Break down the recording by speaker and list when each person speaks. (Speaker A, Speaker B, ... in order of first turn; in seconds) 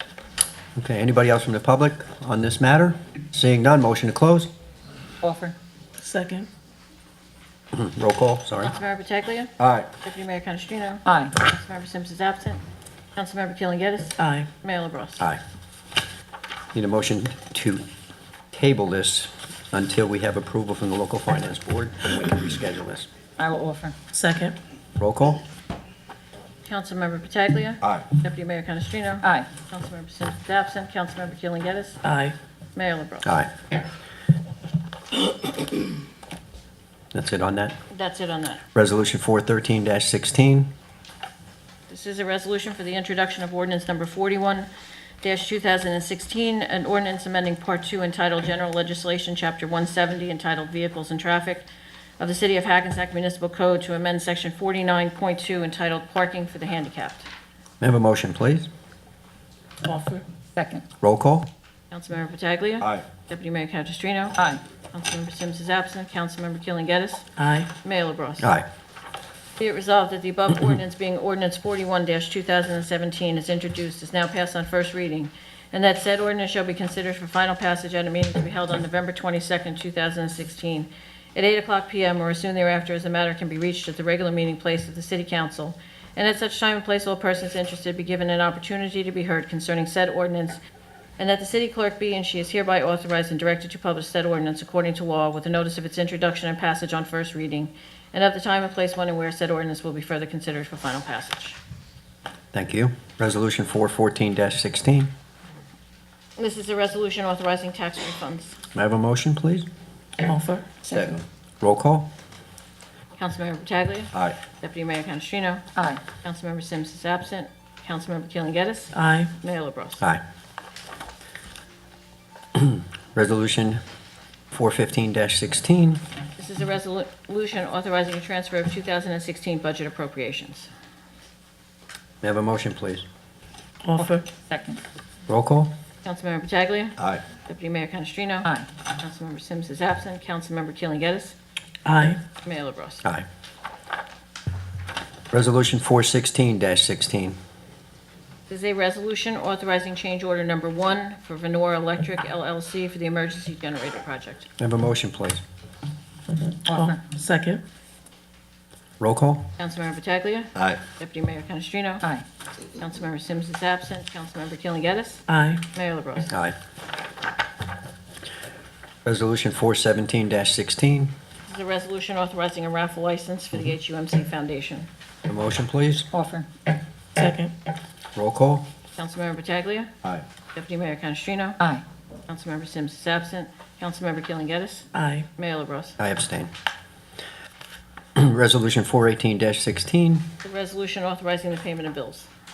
Speaker A: 0.8-4.5, 7.7-8.7, 9.6-9.9, 16.7-17.8, 18.5-23.1, 25.0-25.4, 33.2-33.5, 37.1-37.8, 38.7-40.7, 57.8-58.7, 61.0-61.5, 68.4-68.6, 102.5-105.1, 108.7-109.7, 110.9-112.1, 122.5-123.8, 124.5-126.0, 132.2-133.0, 135.3-135.7, 145.3-147.4, 154.6-155.4, 159.0-159.5, 166.3-166.6, 169.0-171.1, 175.2-176.1, 178.2-178.6, 186.0-186.5, 188.2-190.2
Speaker B: 5.2-5.5, 11.1-11.3, 23.4-23.9, 29.2-29.5, 60.5-60.8, 133.9-134.8, 156.7-157.0, 176.1-176.5
Speaker C: 6.0-6.5, 14.2-14.5, 24.1-24.6, 32.0-32.3, 59.8-60.2, 67.4-67.7, 110.2-110.7, 118.9-119.3, 133.8-134.2, 141.8-142.2, 156.7-157.6, 165.3-165.6, 177.2-177.5, 184.9-185.2
Speaker D: 8.6-12.6, 13.2-15.3, 26.6-32.0, 32.8-33.3, 37.9-38.6, 41.9-44.7, 45.2-51.6, 52.2-57.3, 61.9-64.4, 64.9-67.2, 67.8-68.5, 69.6-90.6, 91.2-101.6, 106.4-108.6, 113.1-115.6, 116.2-120.0, 126.4-130.7, 136.0-141.3, 142.4-143.0, 148.5-154.5, 159.6-162.0, 162.8-165.2, 165.7-166.3, 171.4-174.9, 178.9-179.9, 180.5-181.6, 182.3-185.9, 190.4-192.3